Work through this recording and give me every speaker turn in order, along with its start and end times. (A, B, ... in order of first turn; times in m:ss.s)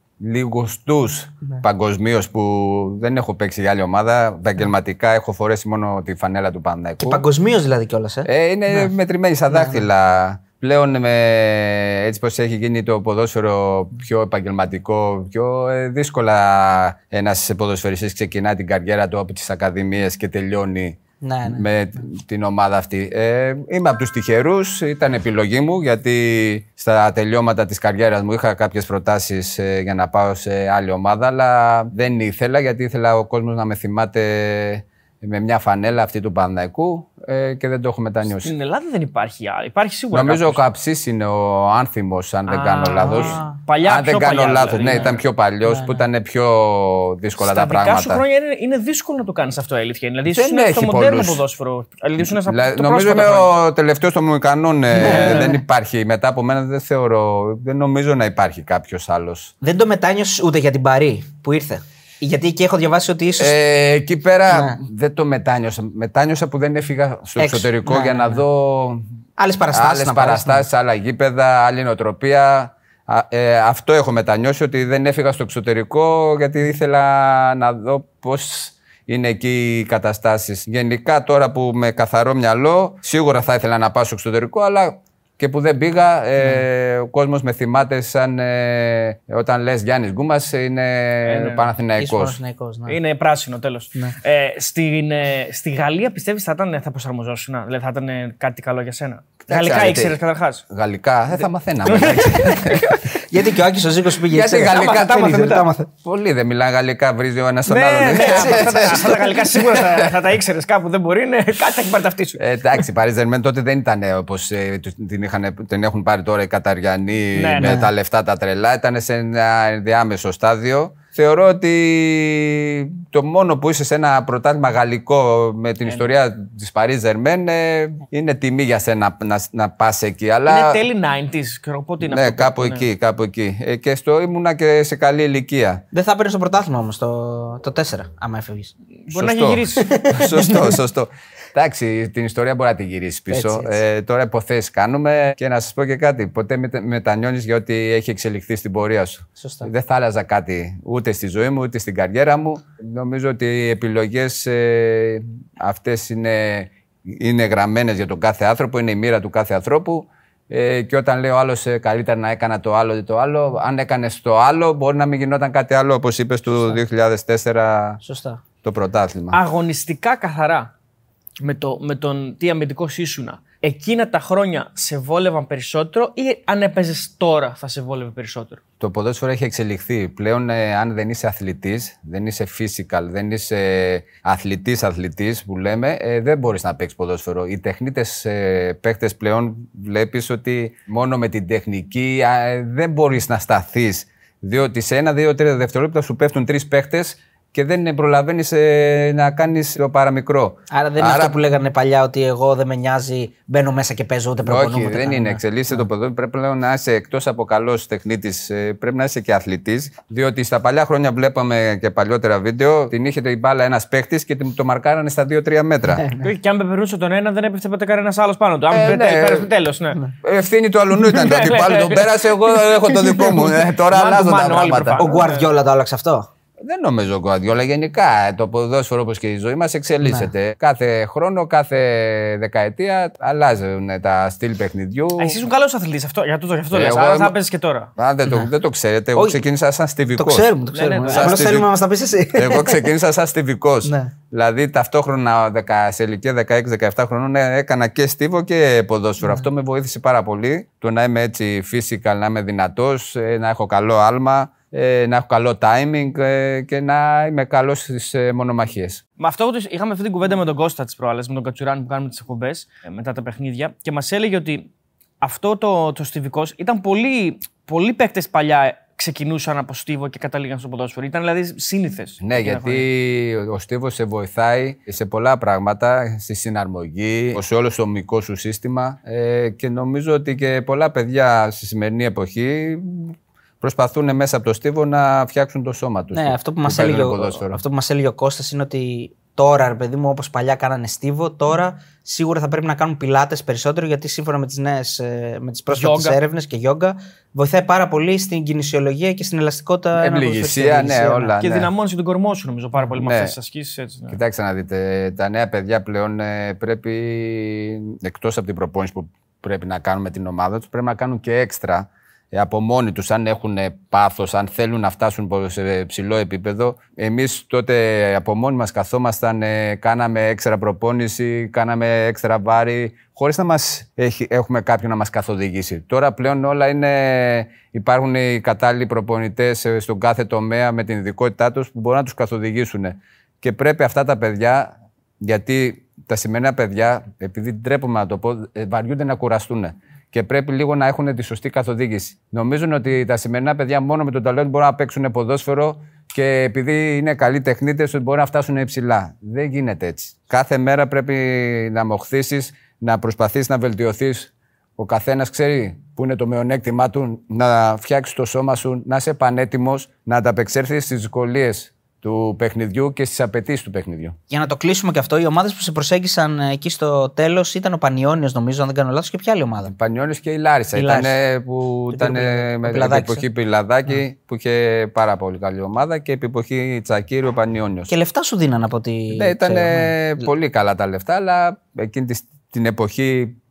0:00.2-0:07.2 A
0:07.0-0:08.9 B
0:08.2-0:38.5 A
0:09.5-0:09.8 B
0:21.2-0:21.6 B
0:38.4-0:40.6 C
0:40.1-0:48.2 A
0:42.5-0:45.2 C
0:43.0-0:43.6 B
0:45.6-0:46.0 B
0:47.4-0:53.5 C
0:50.3-0:51.4 A
0:52.2-0:59.5 A
0:54.9-0:55.6 B
0:55.0-0:55.5 C
0:59.6-1:03.6 B
1:03.4-1:09.0 A
1:04.5-1:04.8 B
1:07.4-1:08.4 B
1:09.4-1:10.6 B
1:09.7-1:32.4 A
1:31.2-1:31.7 C
1:32.0-1:33.0 B
1:32.9-1:40.6 C
1:39.4-1:42.9 A
1:41.8-1:43.2 C
1:43.2-1:45.9 B
1:44.3-1:50.2 A
1:44.7-1:45.6 C
1:47.7-1:52.4 C
1:48.2-1:48.9 B
1:52.4-2:10.8 A
1:57.4-1:57.8 C
1:57.6-1:57.9 B
2:10.4-2:12.9 C
2:12.0-2:15.8 A
2:15.9-2:18.7 B
2:19.0-2:19.9 C
2:19.1-2:48.0 A
2:19.8-2:20.8 B
2:23.3-2:23.8 B
2:29.4-2:29.7 B
2:48.0-2:48.4 B
2:48.6-2:49.4 A
2:49.3-2:50.7 C
2:51.4-2:58.6 C
2:58.8-3:21.4 A
3:20.7-3:25.8 B
3:24.4-3:36.0 A
3:35.9-3:36.2 B
3:36.2-3:40.0 C
3:38.7-3:39.5 A
3:40.2-3:45.0 A
3:41.0-3:45.4 C
3:45.0-3:46.3 B
3:46.6-3:55.4 A
3:50.0-3:50.3 B
3:55.2-3:57.9 C
3:56.7-3:57.3 A
3:58.0-4:00.5 A
3:59.2-3:59.4 B
4:00.1-4:02.9 B
4:00.7-4:01.4 C
4:01.0-4:01.7 A
4:02.3-4:19.0 A
4:03.8-4:04.1 B
4:19.2-4:24.7 C
4:25.2-4:32.8 C
4:32.2-4:47.6 A
4:46.1-5:01.3 B
4:55.7-4:56.2 C
5:00.0-5:01.7 A
5:01.4-5:04.2 C
5:03.0-5:03.3 A
5:04.1-6:04.2 A
6:04.3-6:09.7 B
6:09.6-6:17.9 A
6:10.8-6:11.1 B
6:11.9-6:13.2 B
6:17.9-6:20.0 B
6:19.1-6:23.4 A